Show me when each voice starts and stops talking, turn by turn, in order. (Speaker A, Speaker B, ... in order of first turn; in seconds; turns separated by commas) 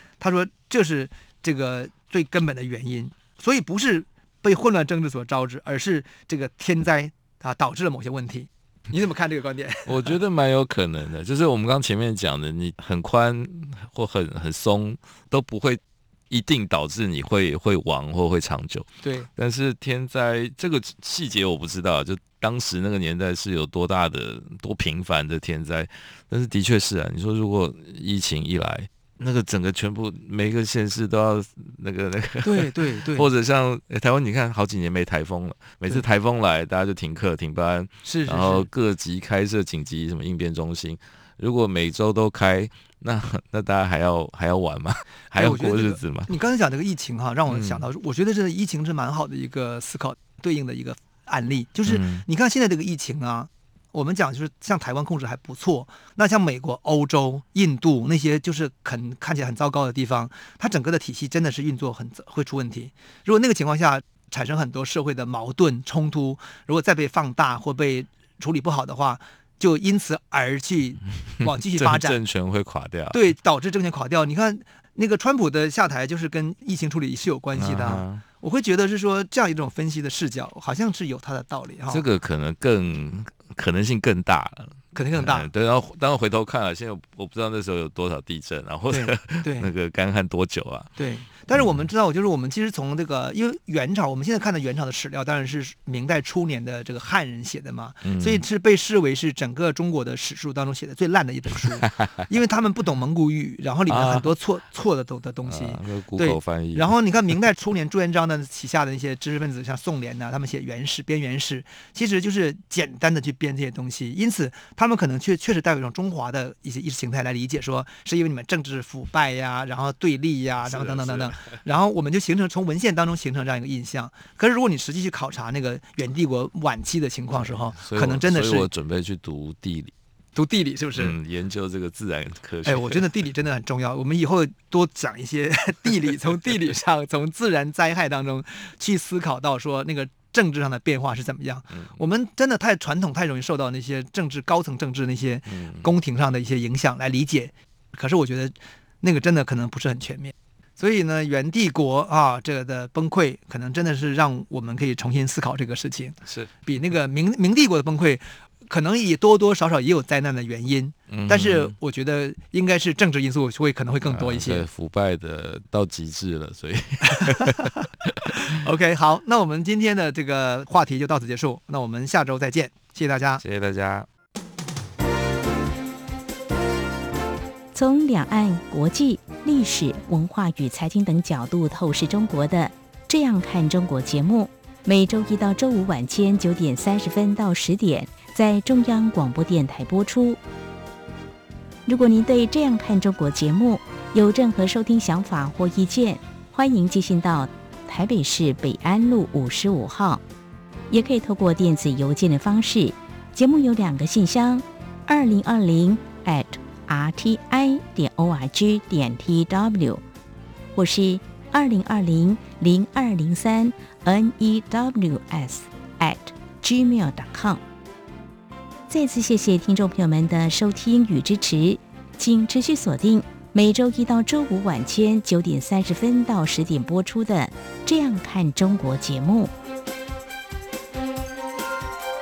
Speaker A: 0.2-10.2, Speaker B: 9.8-46.3, Speaker A: 19.0-19.3, Speaker A: 32.4-33.3, Speaker A: 38.0-38.7, Speaker A: 45.3-72.2, Speaker B: 47.5-47.9, Speaker B: 51.9-52.2, Speaker B: 71.8-73.2, Speaker A: 73.1-82.0, Speaker B: 77.5-78.2, Speaker B: 81.9-90.9, Speaker A: 84.9-85.5, Speaker A: 88.9-89.7, Speaker A: 91.0-128.7, Speaker B: 98.0-98.4, Speaker B: 103.9-104.3, Speaker B: 105.4-106.9, Speaker B: 120.7-121.4, Speaker B: 127.8-129.9, Speaker A: 130.3-131.1, Speaker B: 130.9-133.0, Speaker A: 132.6-164.7, Speaker B: 145.5-145.9, Speaker B: 161.1-161.7, Speaker B: 164.1-168.2, Speaker A: 167.1-173.4, Speaker B: 173.4-174.1, Speaker C: 177.7-190.4, Speaker C: 191.9-200.2, Speaker C: 200.9-210.0, Speaker C: 210.7-217.6, Speaker C: 218.9-229.5